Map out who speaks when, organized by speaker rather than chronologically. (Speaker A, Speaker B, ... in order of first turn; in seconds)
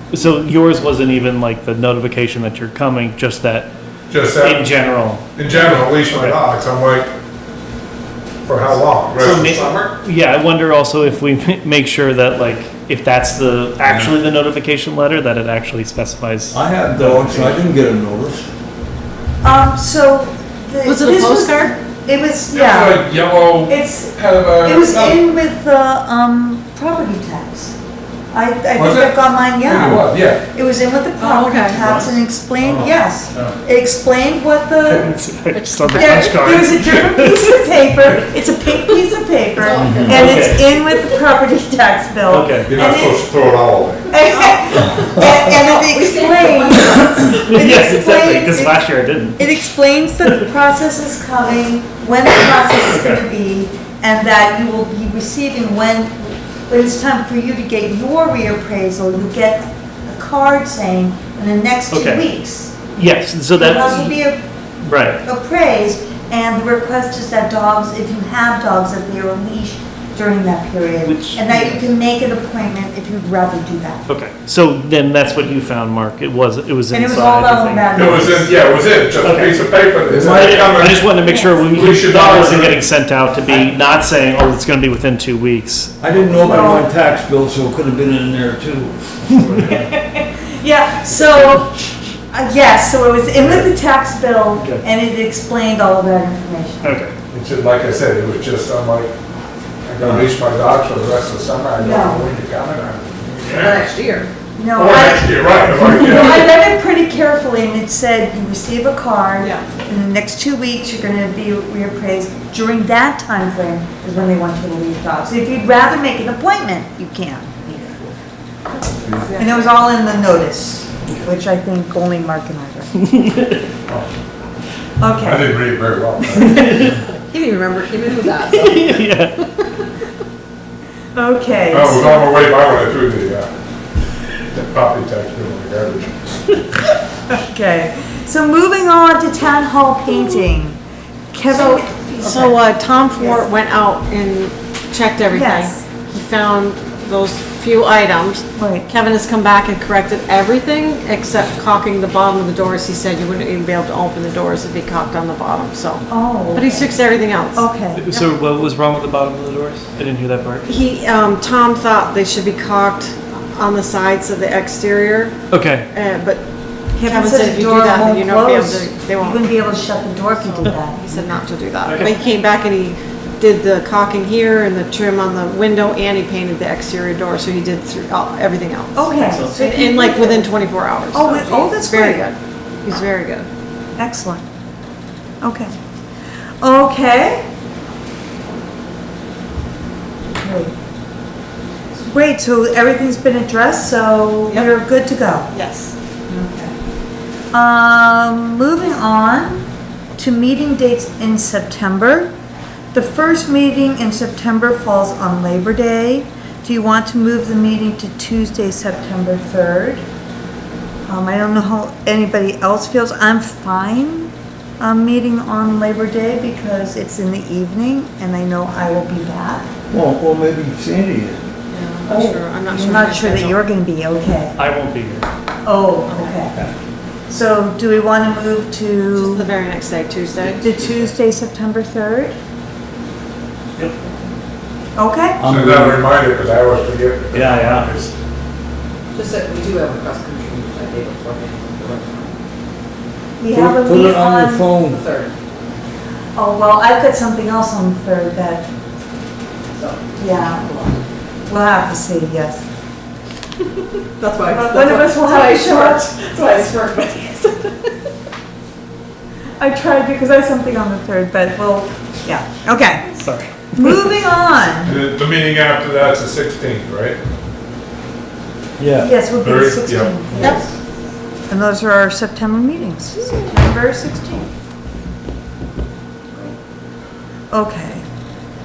Speaker A: 0.1-3.7, 4.4-6.4, 9.2-17.5, 34.9-37.6, 40.0-40.8, 42.3-42.8, 47.5-49.5, 52.9-53.2, 61.9-62.2, 62.9-64.2, 64.8-65.2, 71.0-71.9, 74.1-78.3, 79.2-79.6, 80.2-86.0, 89.3-89.9, 96.8-97.2, 126.6-127.0, 128.4-129.4, 158.0-160.7, 165.5-165.9, 171.8-172.2, 179.2-179.5, 224.6-225.3, 263.2-264.1
Speaker B: 4.1-4.7, 5.3-7.1, 8.4-9.9, 13.8-14.1, 22.5-25.2, 28.8-30.4, 32.6-33.5, 42.7-44.1, 77.9-82.8, 97.3-99.1, 99.8-103.9, 104.7-106.5, 125.2-127.0, 131.7-133.5, 134.5-136.2, 235.5-238.1, 264.9-267.2, 269.4-270.6
Speaker C: 16.5-18.5, 80.1-80.7, 86.0-89.4, 219.9-221.5, 235.4-236.0, 237.3-237.9, 243.5-245.0, 268.8-269.1
Speaker D: 19.4-23.1, 23.7-27.8, 28.3-35.2, 35.9-43.2, 44.1-48.8, 49.4-62.8, 63.5-64.4, 65.2-74.1, 76.9-78.6, 81.2-81.6, 86.4-86.9, 89.6-91.7, 92.3-97.0, 101.8-102.3, 104.6-118.1, 119.4-123.0, 125.0-125.6, 131.2-132.4, 137.3-140.8, 141.3-142.6, 143.2-143.4, 145.3-145.8, 148.6-148.9, 156.1-156.9, 157.5-158.0, 167.0-171.0, 178.9-180.6, 181.1-182.3, 184.0-184.4, 185.4-185.7, 186.6-187.5, 190.3-190.8, 192.1-195.5, 196.3-196.8, 197.5-202.3, 202.9-210.0, 211.1-219.7, 222.1-224.6, 225.6-226.6, 227.3-229.5, 230.6-232.4, 235.0-235.4, 243.4-244.7, 246.3-248.7, 250.2-250.8, 251.4-252.6, 254.5-256.1, 259.6-265.0, 269.0-270.6, 271.5-274.5, 276.3-276.6, 277.5-278.1
Speaker E: 20.8-21.7, 31.2-32.0, 109.4-109.7, 119.0-119.7, 141.5-158.2, 160.7-169.6, 170.3-183.5, 195.5-195.9, 221.7-223.6, 226.1-226.4, 229.1-230.7, 270.4-270.6
Speaker F: 39.6-40.4, 45.0-47.4, 103.4-104.3, 127.3-129.1, 230.7-231.1, 239.2-242.4, 244.8-245.3, 249.8-251.0, 254.2-257.9